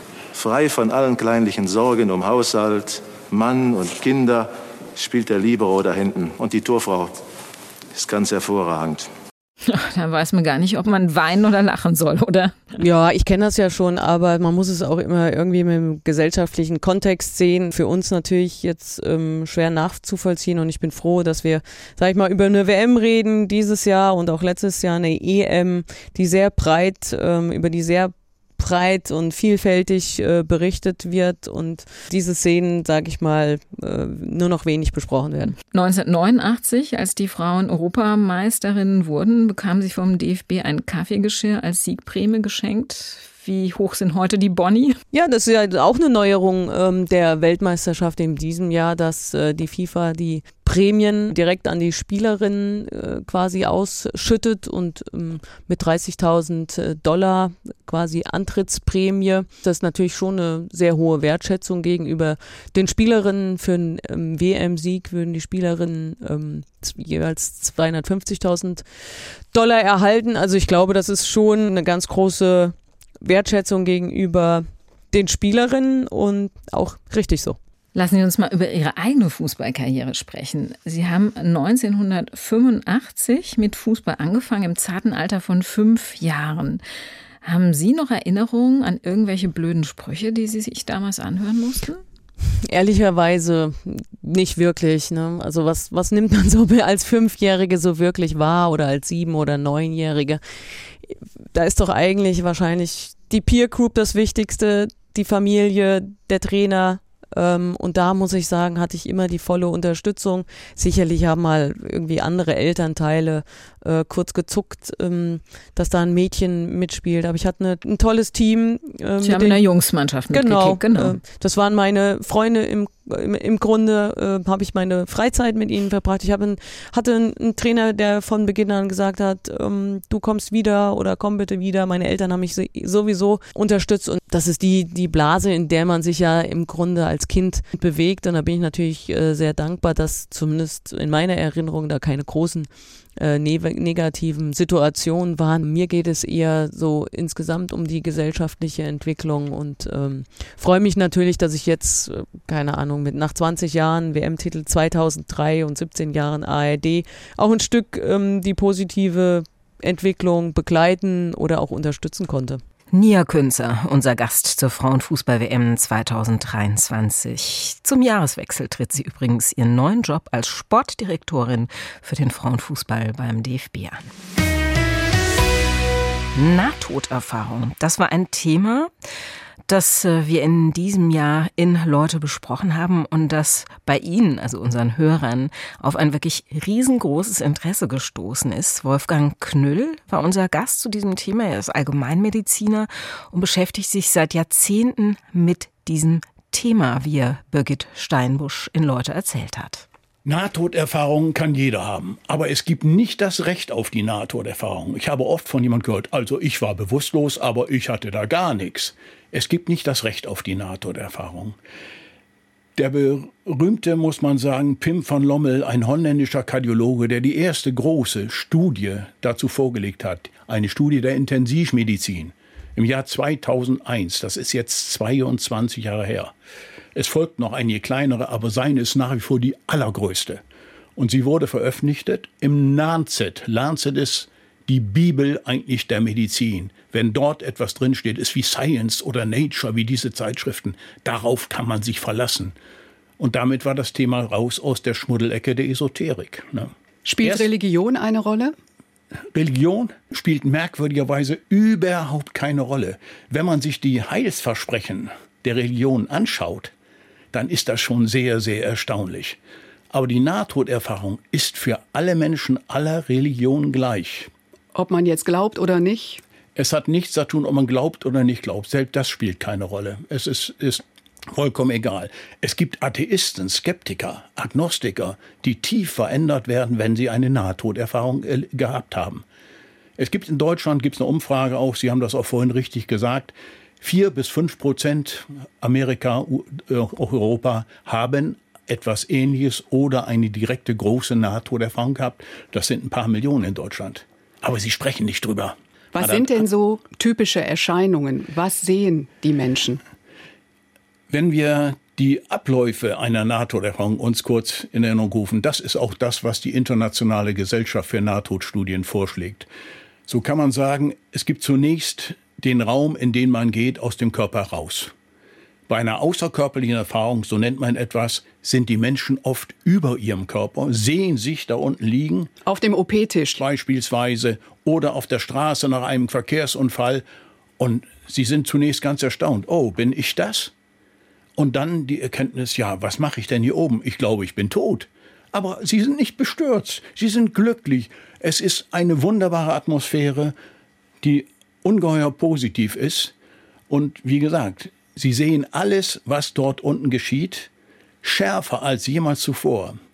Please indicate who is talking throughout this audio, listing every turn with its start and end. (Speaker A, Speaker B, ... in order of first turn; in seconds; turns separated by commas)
Speaker A: 0.3-7.1, Speaker A: 7.9-9.1, Speaker B: 9.7-12.7, Speaker C: 12.8-35.6, Speaker B: 35.7-45.0, Speaker C: 45.1-68.9, Speaker C: 69.5-77.6, Speaker B: 77.9-86.8, Speaker B: 87.4-92.0, Speaker C: 92.7-100.4, Speaker C: 101.0-119.7, Speaker B: 119.2-121.2, Speaker C: 120.3-162.6, Speaker D: 162.9-174.1, Speaker D: 176.3-178.9, Speaker D: 179.7-199.9, Speaker E: 200.2-211.6, Speaker E: 212.8-226.3, Speaker E: 226.9-230.4, Speaker E: 231.0-242.6, Speaker E: 243.2-247.5, Speaker F: 247.0-248.6, Speaker E: 249.3-256.7, Speaker E: 257.3-259.4, Speaker E: 259.9-264.3, Speaker F: 264.7-266.2, Speaker E: 266.6-279.2, Speaker E: 280.0-296.5, Speaker F: 295.9-299.8, Speaker E: 301.1-309.5, Speaker E: 310.1-314.9, Speaker E: 315.7-322.3, Speaker F: 322.4-323.4, Speaker E: 323.3-327.1, Speaker E: 327.6-330.5, Speaker E: 331.4-340.4, Speaker E: 341.0-343.1, Speaker E: 343.7-347.5, Speaker E: 348.0-349.8